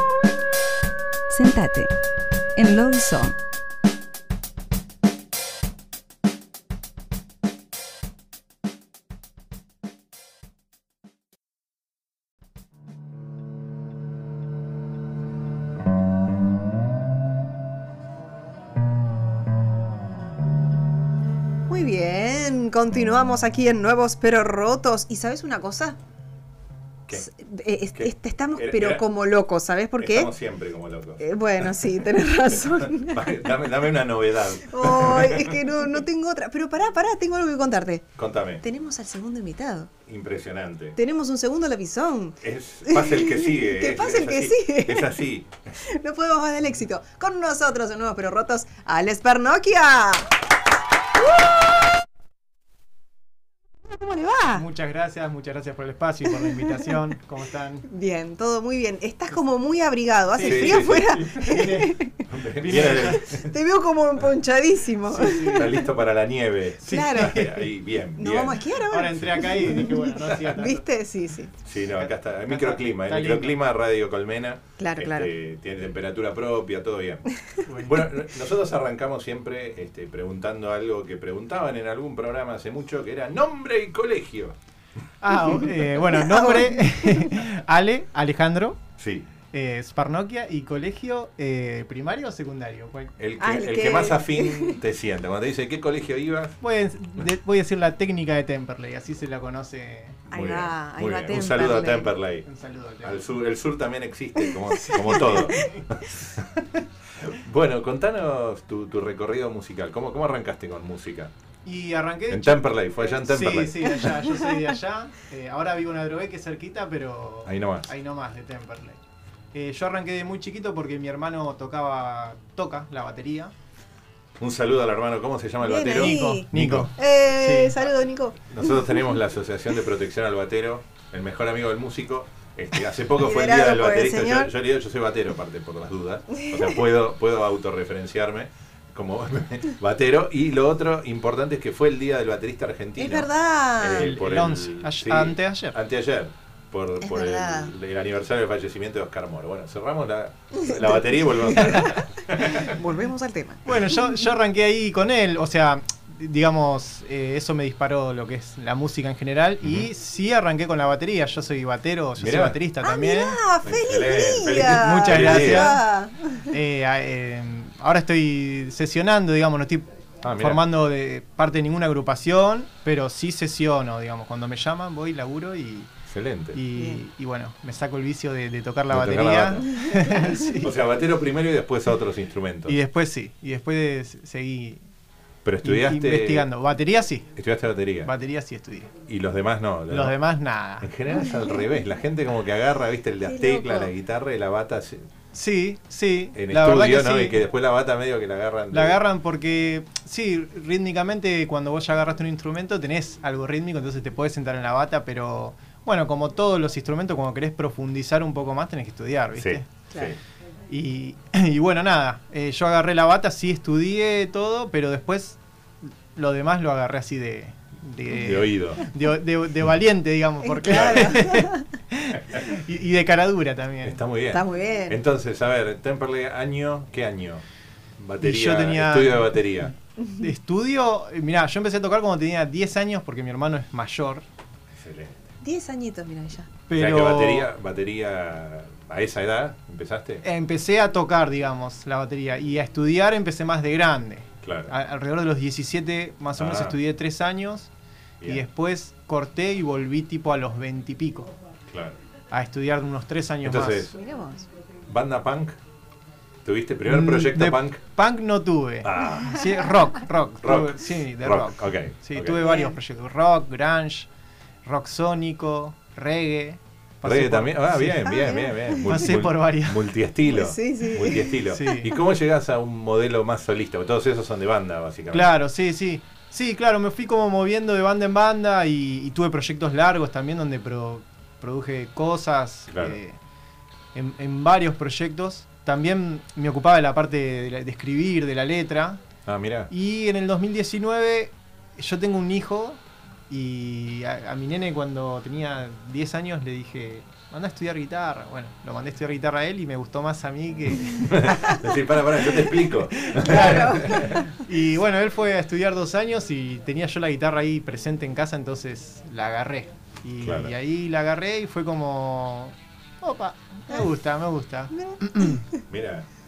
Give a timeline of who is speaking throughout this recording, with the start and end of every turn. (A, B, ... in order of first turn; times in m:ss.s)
0:01.3-0:01.9 A
0:02.6-0:03.4 A
0:21.7-0:26.0 A
0:27.1-0:30.3 A
0:27.9-0:29.0 B
0:30.0-0:31.8 B
0:31.2-0:33.5 A
0:32.5-0:35.7 B
0:34.7-0:39.9 A
0:38.2-0:38.6 B
0:40.1-0:41.0 B
0:41.0-0:45.2 A
0:42.4-0:45.8 B
0:45.8-0:50.4 A
0:53.9-0:54.6 A
0:54.5-0:57.9 C
0:56.4-0:56.9 A
0:57.9-1:05.9 A
1:00.4-1:03.3 C
1:00.4-1:01.1 B
1:02.3-1:03.5 B
1:05.1-1:05.8 C
1:05.2-1:09.6 B
1:06.8-1:07.6 A
1:06.8-1:07.5 C
1:08.2-1:11.6 A
1:08.9-1:10.8 C
1:11.6-1:24.6 B
1:11.9-1:13.6 C
1:14.8-1:15.3 A
1:17.6-1:18.1 C
1:25.2-1:28.8 C
1:26.1-1:27.3 A
1:29.0-1:29.3 B
1:29.5-1:33.1 C
1:33.2-1:36.6 B
1:33.4-1:34.8 A
1:36.6-1:40.3 C
1:40.3-1:42.5 B
1:40.3-1:42.1 A
1:42.4-1:43.2 C
1:43.0-1:46.5 B
1:44.5-1:45.7 A
1:45.5-1:45.8 C
1:47.1-1:51.3 B
1:51.6-1:59.0 C
1:52.3-1:54.2 B
1:57.5-1:57.9 B
1:59.5-2:03.5 C
2:04.4-2:06.9 B
2:05.6-2:09.0 A
2:06.0-2:07.8 C
2:08.5-2:32.7 B
2:13.2-2:14.5 A
2:16.3-2:16.7 A
2:23.0-2:24.1 A
2:24.0-2:25.8 C
2:27.0-2:27.7 A
2:30.5-2:34.0 A
2:31.6-2:32.0 C
2:33.6-2:43.4 C
2:42.2-2:42.6 B
2:42.8-2:46.5 A
2:43.6-2:45.8 B
2:44.6-2:45.8 C
2:46.5-2:55.9 C
2:50.2-2:50.6 B
2:56.1-2:56.6 B
2:56.5-3:00.7 C
2:56.8-2:57.0 A
2:58.9-2:59.7 B
2:59.8-3:00.3 A
3:00.6-3:02.8 B
3:02.7-3:04.8 C
3:05.4-3:06.5 B
3:05.6-3:07.3 C
3:07.4-3:08.1 B
3:08.0-3:08.9 C
3:09.1-3:10.2 B
3:09.9-3:10.9 C
3:10.8-3:15.1 B
3:13.2-3:13.9 A
3:15.3-3:17.4 C
3:16.4-3:19.0 B
3:18.7-3:29.7 C
3:29.4-3:30.2 B
3:29.9-3:30.2 A
3:30.7-3:44.0 C
3:38.1-3:38.8 B
3:40.4-3:41.7 A
3:40.7-3:41.2 B
3:43.8-3:47.4 B
3:44.3-3:45.0 A
3:48.0-3:49.7 B
3:48.2-3:49.4 C
3:50.2-3:54.3 C
3:54.7-3:55.2 B
3:55.4-3:56.5 A
3:56.7-3:57.5 C
3:56.8-4:00.2 B
4:00.2-4:07.7 C
4:04.4-4:04.7 B
4:06.4-4:06.8 B
4:08.2-4:11.3 C
4:11.7-4:12.0 B
4:12.3-4:13.9 C
4:13.4-4:14.0 B
4:13.9-4:14.5 A
4:14.9-4:15.6 B
4:16.4-4:17.8 B
4:16.9-4:24.1 C
4:18.8-4:19.5 B
4:20.4-4:22.4 B
4:22.4-4:22.8 A
4:24.6-4:28.1 C
4:27.0-4:35.3 B
4:28.0-4:29.1 A
4:28.8-4:29.9 C
4:30.3-4:31.8 A
4:31.1-4:31.9 C
4:35.1-4:43.2 C
4:42.7-4:43.0 B
4:43.9-4:49.0 C
4:49.3-4:49.7 B
4:49.7-5:01.6 C
5:01.0-5:04.2 B
5:02.5-5:15.4 C
5:03.2-5:04.4 A
5:10.2-5:10.5 B
5:14.8-5:15.6 A
5:15.7-5:16.1 B